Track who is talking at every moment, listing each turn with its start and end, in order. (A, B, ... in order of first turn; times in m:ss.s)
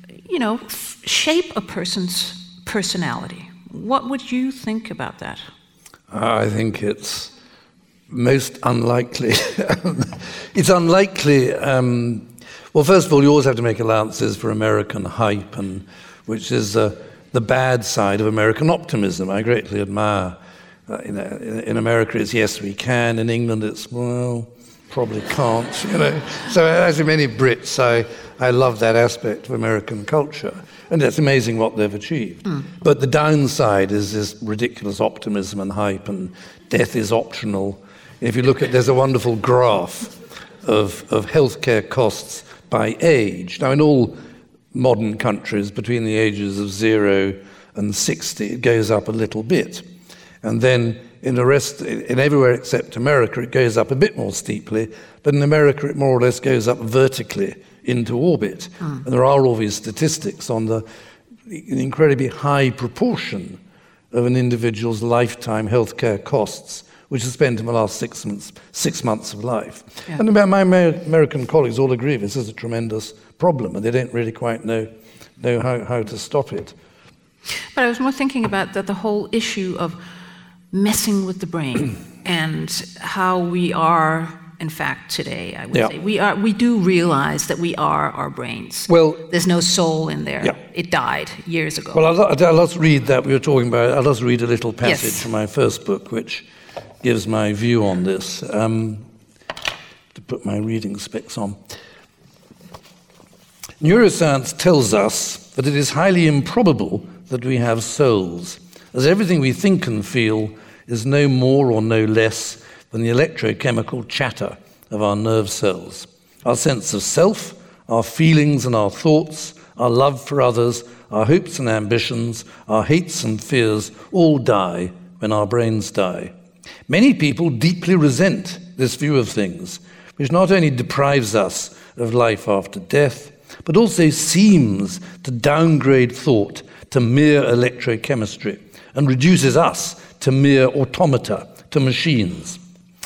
0:00.3-0:05.4 A
0:06.1-0:07.3 B
0:08.1-0:44.2 B
0:44.7-0:49.8 B
0:50.4-1:00.8 B
1:01.5-1:03.6 B
1:04.1-1:16.8 B
1:17.7-1:20.0 A
1:20.7-1:32.1 A
1:28.9-1:29.3 B
1:31.9-1:36.5 B
1:34.8-1:35.3 A
1:37.0-1:39.0 B
1:40.2-1:41.6 B
1:43.8-2:06.3 B
2:06.9-2:22.6 B